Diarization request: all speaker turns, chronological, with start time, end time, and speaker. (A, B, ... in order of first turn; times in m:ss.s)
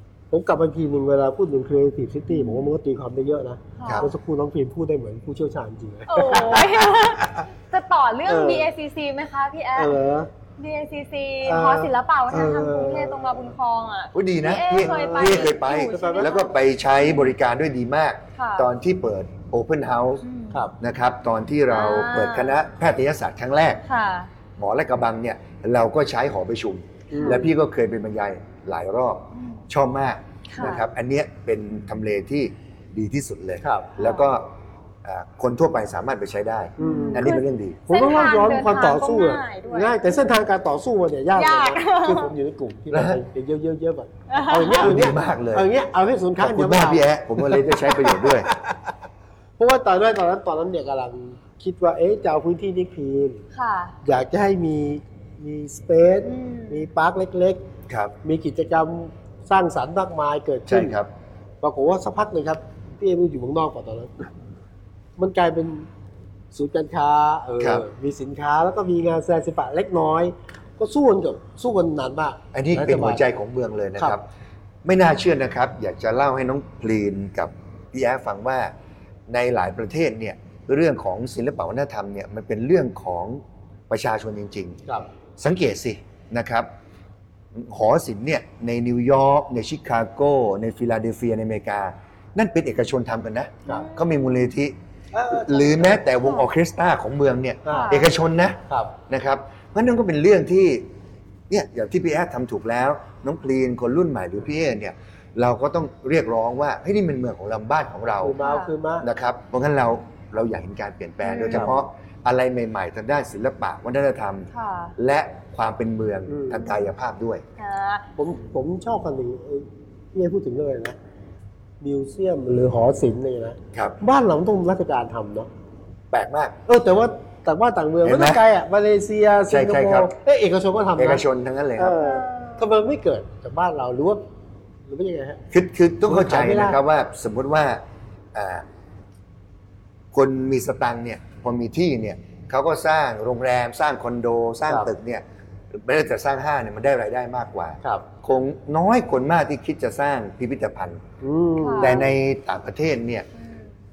0:00.3-0:07.4 A
0:02.3-0:02.7 B
0:03.8-0:04.1 B
0:03.8-0:04.1 C
0:06.1-0:10.0 B
0:08.2-0:08.7 A
0:09.7-0:10.3 A
0:10.6-0:17.3 B
0:11.4-0:13.4 A
0:14.1-0:20.2 C
0:14.8-0:16.4 A
0:18.4-0:18.7 B
0:20.2-0:20.6 B
0:20.8-0:23.8 C
0:21.7-0:22.6 B
0:23.9-0:24.3 B
0:24.6-0:37.8 C
0:27.1-0:27.5 A
0:27.2-0:27.5 B
0:30.5-0:30.8 B
0:33.6-0:33.9 A
0:34.0-0:34.2 B
0:36.8-0:48.9 A
0:36.8-0:40.3 B
0:41.3-0:42.3 B
0:42.9-0:43.2 C
0:44.3-0:44.9 B
0:44.8-0:45.7 C
0:46.4-0:48.5 C
0:49.6-0:53.4 A
0:53.5-0:54.0 B
0:54.0-0:57.6 A
0:56.3-0:56.8 B
0:57.9-0:58.1 C
0:58.2-1:01.0 A
1:00.7-1:01.1 C
1:01.6-1:04.3 A
1:05.2-1:05.9 A
1:06.5-1:13.2 A
1:07.6-1:07.8 C
1:12.5-1:14.2 C
1:14.8-1:18.7 C
1:19.3-1:24.8 C
1:25.4-1:26.7 C
1:27.5-1:34.8 C
1:33.7-1:34.5 B
1:35.1-1:36.1 A
1:35.3-1:40.9 C
1:36.2-1:36.5 B
1:37.6-1:38.0 A
1:37.7-1:38.0 B
1:38.7-1:38.9 A
1:41.5-1:48.4 C
1:48.2-1:49.1 A
1:48.4-1:48.7 B
1:49.0-1:57.4 C
1:51.2-1:51.7 B
1:51.5-1:51.7 A
1:54.5-1:54.9 B
1:56.3-1:56.7 A
1:57.6-1:58.1 B
1:58.2-2:01.0 A
2:01.8-2:05.5 A
2:06.1-2:06.6 C
2:06.6-2:11.2 A
2:08.0-2:08.4 C
2:09.5-2:10.1 C
2:11.0-2:12.0 C
2:11.8-2:14.2 A
2:12.0-2:12.7 B
2:14.8-2:15.4 A
2:15.5-2:17.8 C
2:16.0-2:16.8 A
2:18.3-2:18.6 C
2:20.1-2:31.0 C
2:31.2-2:32.1 A
2:31.6-2:32.0 B
2:31.8-2:33.3 C